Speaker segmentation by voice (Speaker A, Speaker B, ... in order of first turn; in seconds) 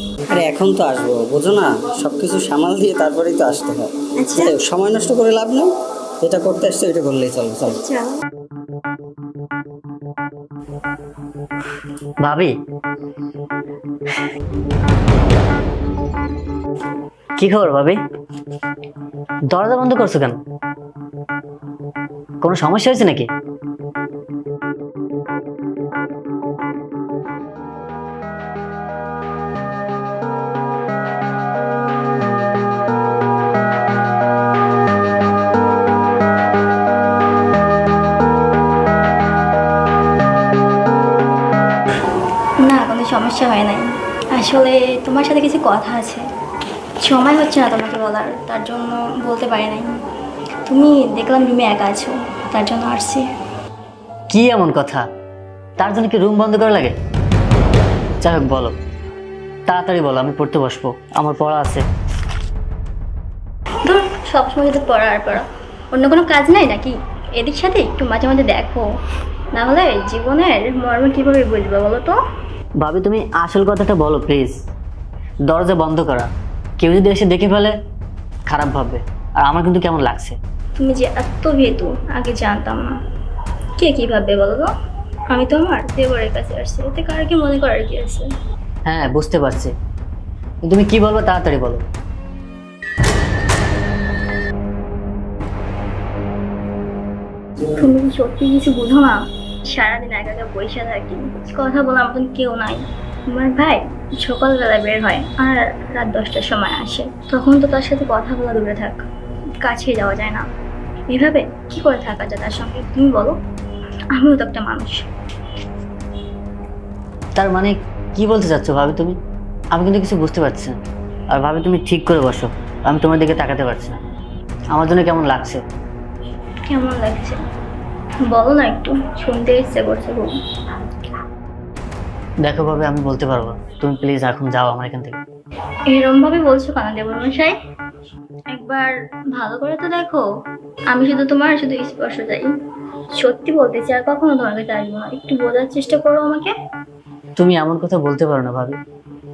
Speaker A: 0.3-5.7, 6.2-7.8
Speaker B: 4.2-4.5, 7.7-8.1, 42.6-46.3, 47.0-49.9, 50.7-53.2, 63.8-68.8, 69.5-72.2, 80.8-83.0, 83.8-84.7, 85.3-88.3, 97.7-109.0, 109.6-110.5, 111.1-113.3, 114.1-115.1, 126.7-127.4, 128.3-130.3, 135.9-137.6, 138.5-140.3, 140.9-142.5, 143.2-146.5
Speaker C: 12.2-12.5, 17.4-18.0, 19.5-20.4, 22.4-23.3, 54.3-55.1, 55.8-56.9, 58.2-58.8, 59.7-61.9, 72.8-74.5, 75.5-77.7, 78.5-80.4, 88.8-89.7, 90.6-91.8, 117.4-119.2, 119.7-120.8, 121.3-124.0, 124.7-125.6, 132.4-135.2, 147.4-148.8